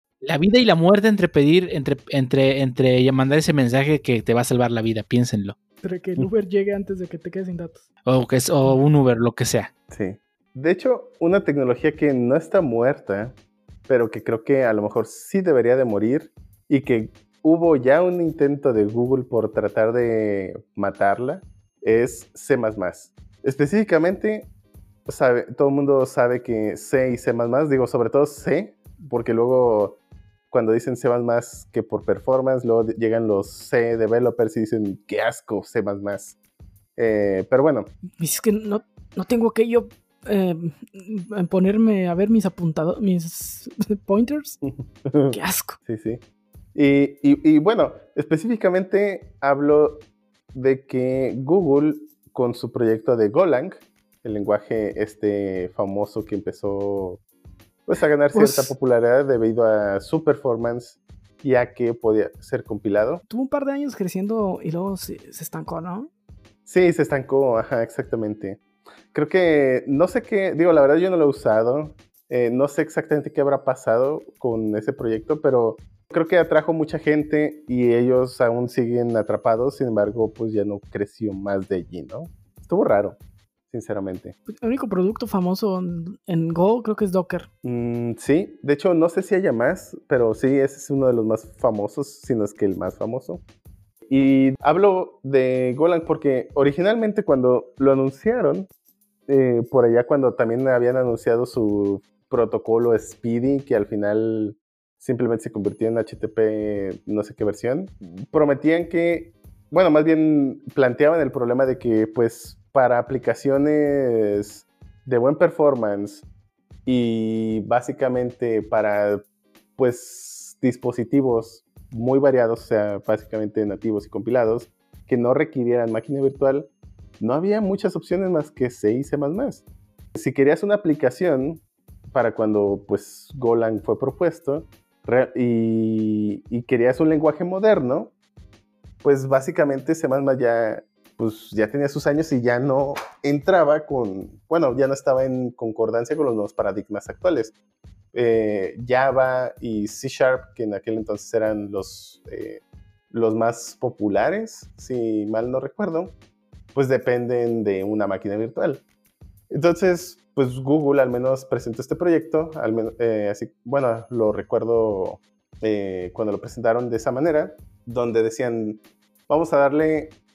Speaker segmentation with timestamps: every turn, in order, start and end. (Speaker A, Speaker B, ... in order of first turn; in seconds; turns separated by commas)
Speaker A: 0.2-5.6, Speaker B: 5.8-7.8, Speaker A: 8.1-9.7, Speaker C: 9.9-13.4, Speaker C: 13.9-24.5, Speaker C: 25.1-30.0, Speaker C: 30.5-36.4, Speaker C: 37.0-37.9, Speaker B: 38.2-44.6, Speaker C: 44.6-46.2, Speaker B: 45.3-45.8, Speaker C: 46.8-57.2, Speaker C: 57.9-63.2, Speaker B: 58.3-58.7, Speaker B: 63.3-66.1, Speaker C: 66.7-68.6, Speaker C: 69.1-83.2, Speaker C: 83.7-84.4, Speaker B: 84.5-87.5, Speaker C: 87.6-93.4, Speaker C: 94.1-98.7, Speaker C: 99.3-116.2, Speaker C: 116.9-119.2, Speaker C: 119.8-138.1, Speaker C: 139.0-147.5, Speaker C: 148.1-156.2, Speaker C: 156.8-158.8, Speaker C: 159.5-170.2